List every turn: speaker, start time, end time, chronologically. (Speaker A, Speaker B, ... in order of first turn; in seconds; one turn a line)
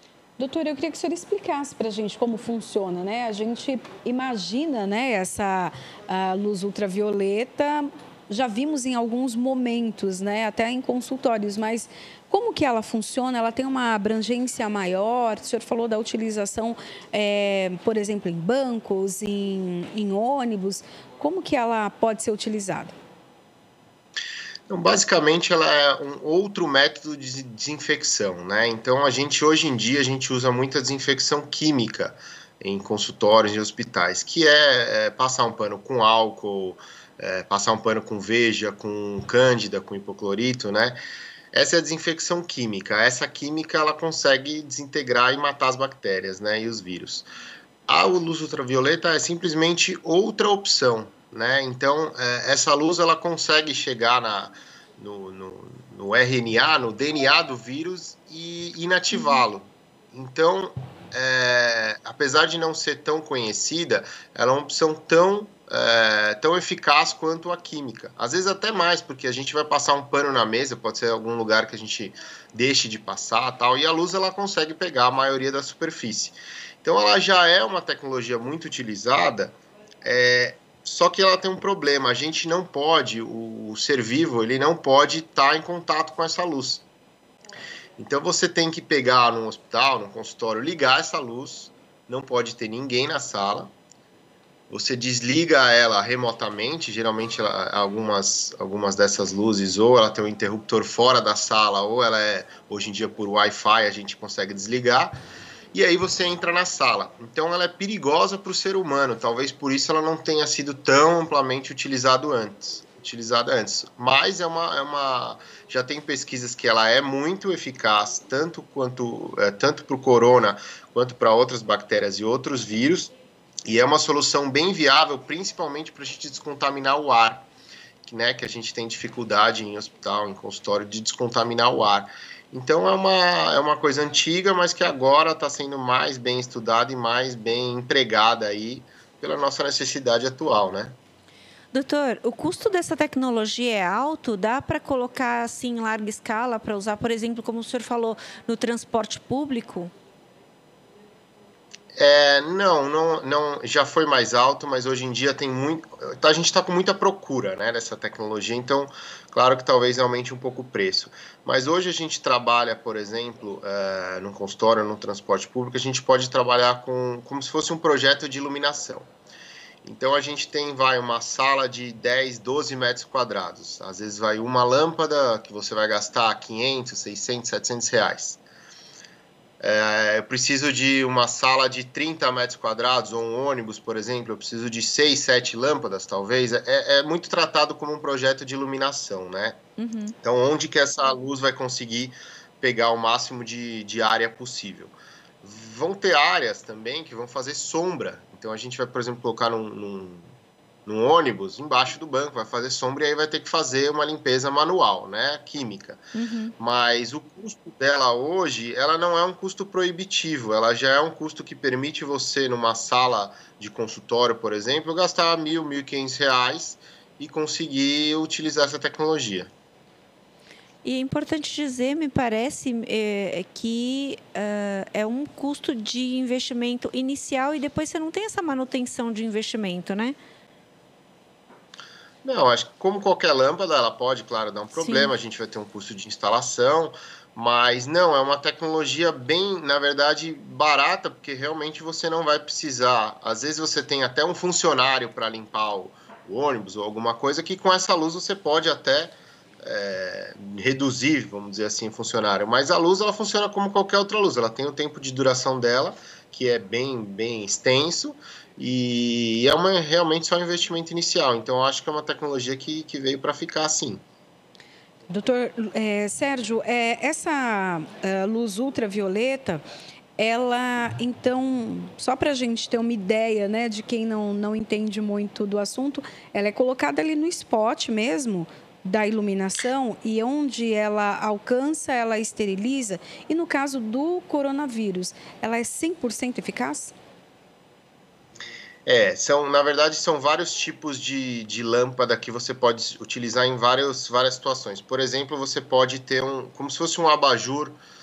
Speaker A: 0.4-22.9
Speaker B: 24.7-41.0
Speaker B: 41.5-47.3
Speaker B: 47.9-86.8
Speaker C: 59.1-59.4
Speaker B: 88.0-93.7
Speaker B: 94.7-105.2
Speaker B: 105.7-123.1
Speaker B: 123.6-127.5
Speaker B: 128.1-141.0
Speaker C: 141.7-149.9
Speaker B: 151.9-169.1
Speaker B: 169.8-178.4
Speaker B: 179.6-189.6
Speaker C: 189.8-190.1
Speaker B: 190.2-200.3
Speaker B: 200.9-206.0
Speaker C: 206.1-206.5
Speaker B: 206.6-219.5
Speaker C: 220.8-230.2
Speaker B: 232.2-264.0
Speaker C: 234.7-235.1
Speaker A: 265.1-269.6
Speaker A: 270.2-286.9
Speaker B: 288.9-297.8